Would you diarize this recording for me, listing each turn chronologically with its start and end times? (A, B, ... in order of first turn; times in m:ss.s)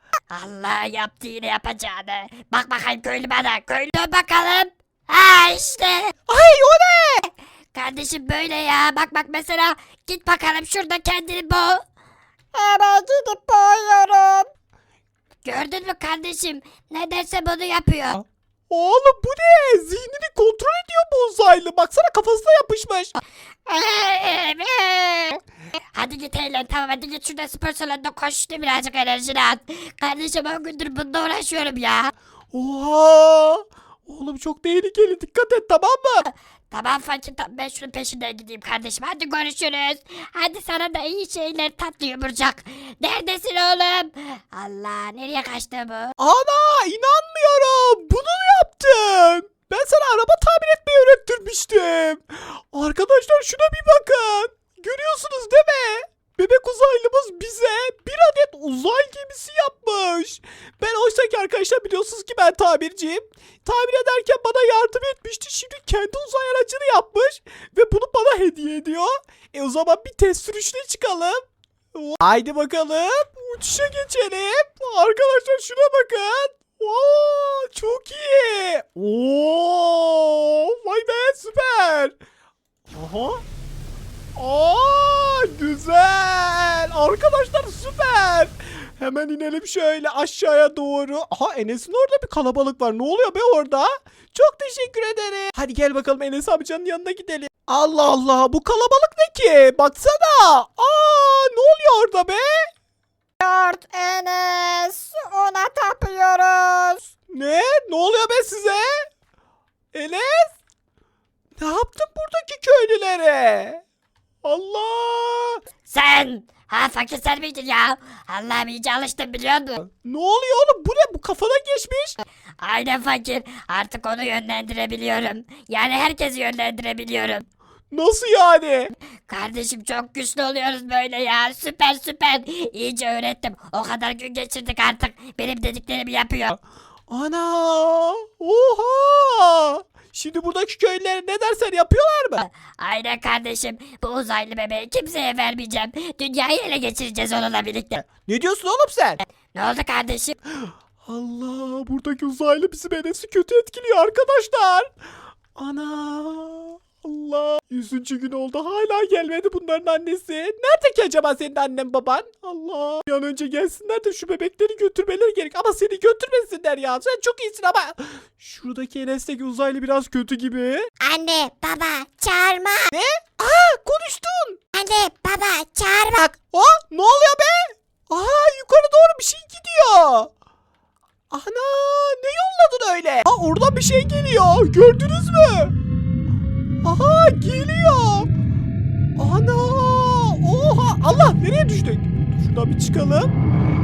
0:00.3-0:06.1 A
0:06.3-0:07.3 B
0:07.7-0:11.8 A
0:12.5-0:14.5 C
0:15.4-0:18.2 A
0:18.7-0:23.2 B
0:23.7-0:25.4 A
0:25.9-0:32.1 A
0:32.5-0:36.3 B
0:36.3-0:46.1 A
0:46.2-1:11.4 B
1:12.0-1:22.2 B
1:22.9-1:23.4 B
1:24.4-1:42.7 B
1:43.4-1:47.0 C
1:47.3-1:49.0 B
1:49.9-1:50.6 B
1:51.6-1:53.8 B
1:54.4-1:55.6 B
1:55.9-1:59.8 A
1:59.9-2:02.2 B
2:02.6-2:07.5 A
2:07.9-2:08.9 B
2:09.3-2:16.6 A
2:17.1-2:22.4 B
2:22.4-2:28.1 A
2:28.1-2:29.2 B
2:29.5-2:30.4 A
2:30.5-2:34.9 B
2:35.6-2:50.9 B
2:51.0-2:52.9 C
2:52.9-2:54.6 B
2:54.8-2:56.2 C
2:56.2-3:00.3 B
3:01.3-3:05.7 B
3:06.8-3:08.3 B
3:09.2-3:13.4 B